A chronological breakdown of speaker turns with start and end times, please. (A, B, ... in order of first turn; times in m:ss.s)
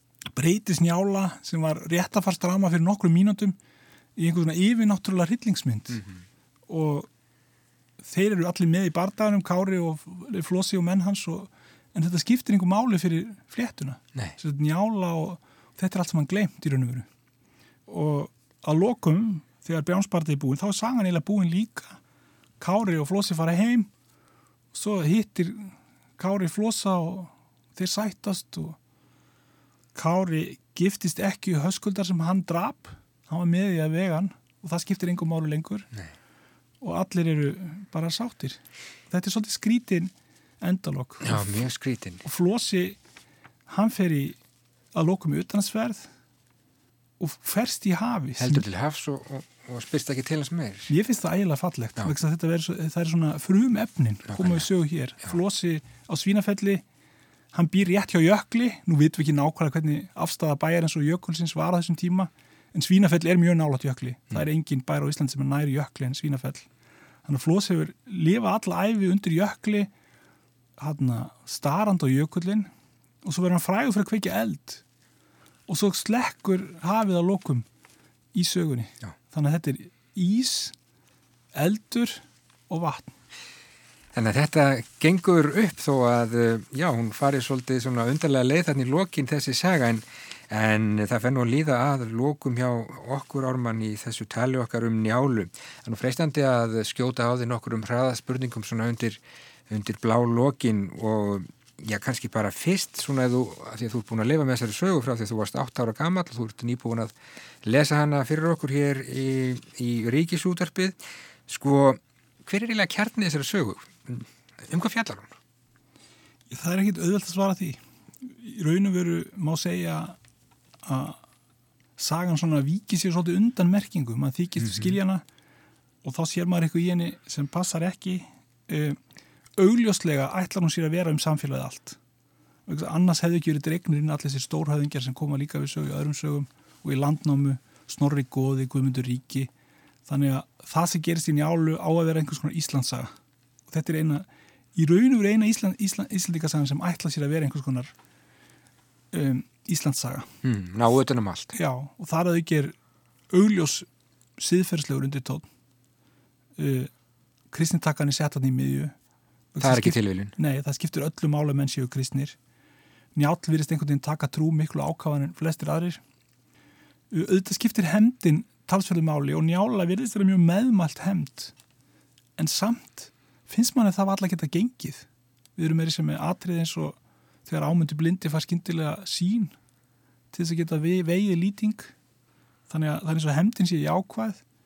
0:00.3-0:03.6 A
0:04.2-0:06.1 A
0:06.7-0:07.1 A
0:08.0-0:17.1 A
0:17.9-0:22.0 A
0:22.6-0:23.9 A
0:24.7-0:28.8 A
0:30.0-0:35.9 A
0:36.8-0:41.6 A
0:41.2-0:42.2 B
0:42.2-0:43.0 A
0:43.7-0:44.4 A
0:44.9-0:46.1 A
0:47.2-0:48.6 A
0:48.4-0:50.9 B
0:50.9-0:56.8 A
0:54.3-0:54.7 B
0:57.5-1:06.7 A
1:07.2-1:09.9 A
1:10.8-1:12.7 A
1:13.2-1:14.8 A
1:15.7-1:17.7 A
1:18.3-1:20.8 A
1:21.5-1:23.2 A
1:24.1-1:55.3 B
1:56.5-2:00.2 A
2:00.8-2:01.2 A
2:02.0-2:05.2 A
2:06.0-2:09.0 A
2:09.6-2:12.0 A
2:12.7-2:19.5 A
2:20.1-2:23.1 A
2:23.7-2:27.9 A
2:29.1-2:30.3 A
2:30.4-2:31.5 B
2:31.5-2:32.8 A
2:33.3-2:35.5 A
2:36.6-2:36.9 A
2:37.5-2:38.9 A
2:39.5-2:42.4 A
2:39.6-2:40.4 B
2:43.2-2:46.0 A
2:47.1-2:51.6 A
2:52.4-2:59.6 A
3:00.3-3:02.0 A
3:02.7-3:04.4 A